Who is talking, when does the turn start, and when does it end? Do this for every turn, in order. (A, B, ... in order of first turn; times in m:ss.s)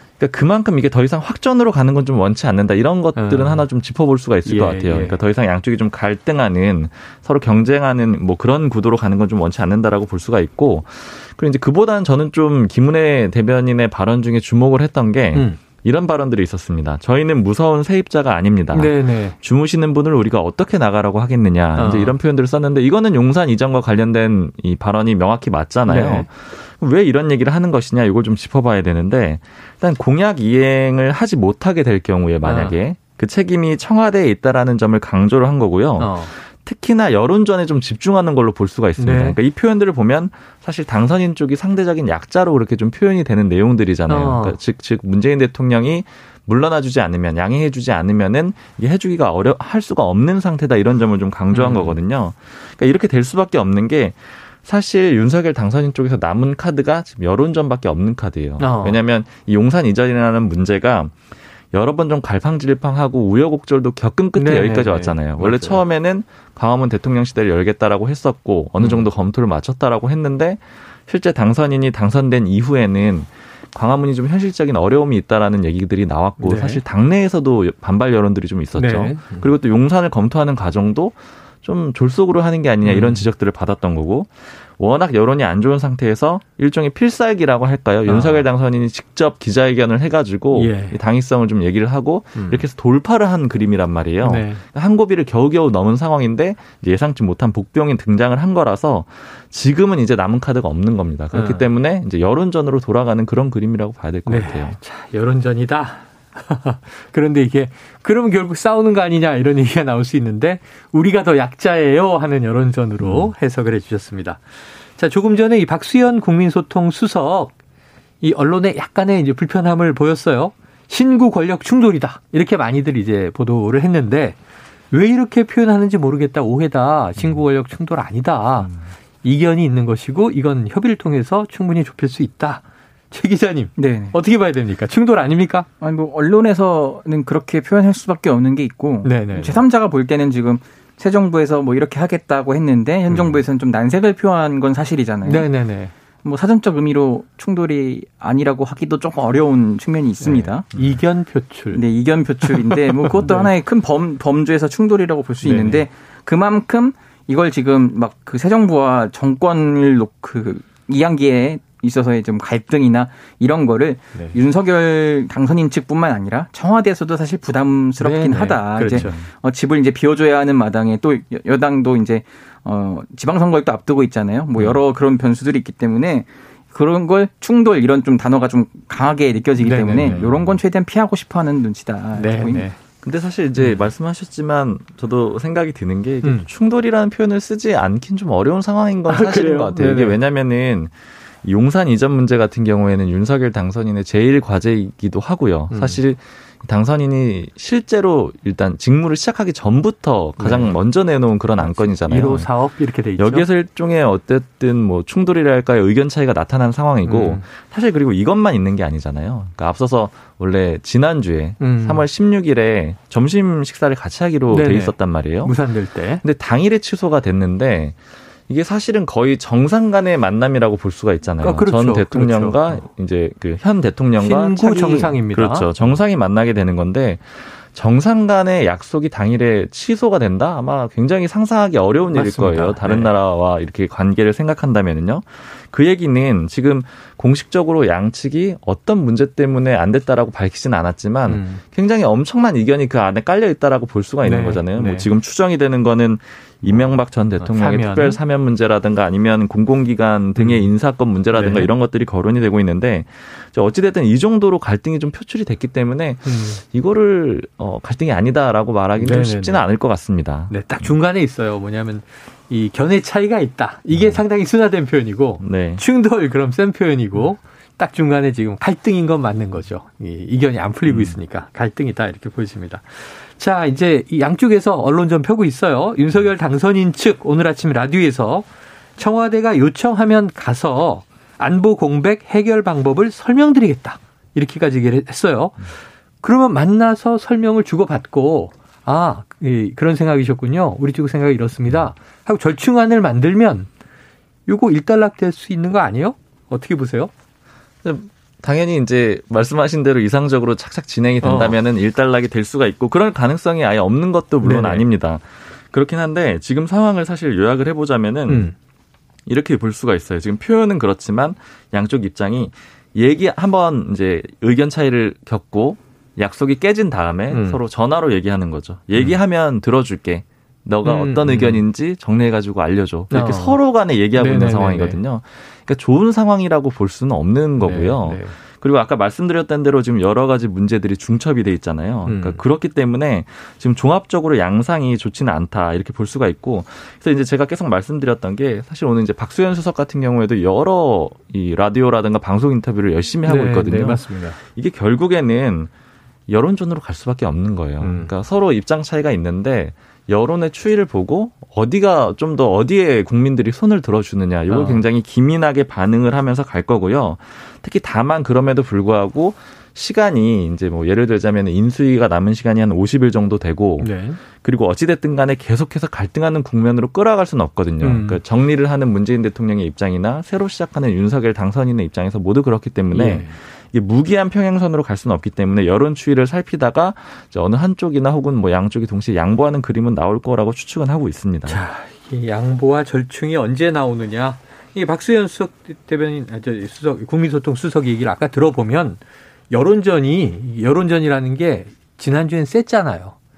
0:00.2-1:01.1 A
0:03.2-0:03.6 B
0:04.4-0:05.2 B
0:15.3-0:15.6 B
0:18.7-0:19.4 B
0:21.8-0:22.2 B
0:25.9-0:26.3 B
0:32.4-0:32.8 B
0:36.0-0:36.3 B
0:39.0-0:39.4 B
0:44.1-0:44.6 B
0:51.5-0:52.0 B
0:58.6-0:59.0 B
1:01.7-1:44.8 A
1:04.4-1:05.8 B
1:08.8-1:09.0 B
1:16.4-1:16.8 B
1:18.8-1:19.5 B
1:22.8-1:23.2 B
1:28.0-1:28.4 B
1:30.5-1:31.0 B
1:32.4-1:32.6 B
1:34.2-1:34.6 B
1:41.3-1:41.6 B
1:44.2-1:54.4 B
1:53.0-1:53.3 A
1:55.0-1:57.5 B
1:58.2-2:04.4 B
2:04.9-2:15.7 B
2:13.8-2:14.1 C
2:15.8-2:25.5 C
2:19.0-2:19.6 B
2:25.2-2:25.9 B
2:26.2-2:30.6 C
2:30.2-2:31.8 B
2:31.7-3:02.7 C
2:32.4-2:33.5 B
2:35.4-2:35.8 B
2:48.0-2:49.2 B
2:48.9-2:49.2 A
2:59.6-3:00.4 B
3:02.2-3:02.8 B
3:03.0-3:22.5 A
3:03.6-3:03.8 B
3:09.1-3:10.2 B
3:15.7-3:16.0 B
3:20.4-3:20.8 B
3:21.6-3:23.5 B
3:23.2-3:35.5 A
3:27.0-3:27.4 B
3:31.6-3:32.0 B
3:34.5-3:36.2 B
3:36.2-3:38.0 A
3:38.5-4:20.5 A
3:41.4-3:42.8 B
3:44.2-3:45.7 B
3:52.1-3:53.1 B
4:01.3-4:01.6 B
4:04.2-4:05.1 B
4:07.4-4:08.2 B
4:10.4-4:10.7 B
4:11.3-4:11.7 B
4:16.2-4:16.6 B
4:19.0-4:19.6 B
4:20.5-4:53.7 B
4:23.9-4:24.2 A
4:25.4-4:25.8 A
4:30.9-4:31.2 A
4:54.5-4:57.1 B
4:57.8-5:08.5 A
5:01.2-5:01.6 B
5:04.4-5:04.8 B
5:08.3-5:08.5 B
5:09.3-5:45.7 A
5:17.3-5:17.6 B
5:20.8-5:21.6 B
5:23.1-5:23.6 B
5:24.1-5:25.0 B
5:27.6-5:28.3 B
5:32.0-5:32.4 B
5:43.2-5:44.4 B
5:46.3-6:21.6 A
5:47.8-5:48.1 B
5:54.5-5:54.8 B
6:03.8-6:04.2 B
6:07.8-6:08.2 B
6:12.9-6:13.4 B
6:21.5-6:29.0 B
6:29.5-6:33.1 B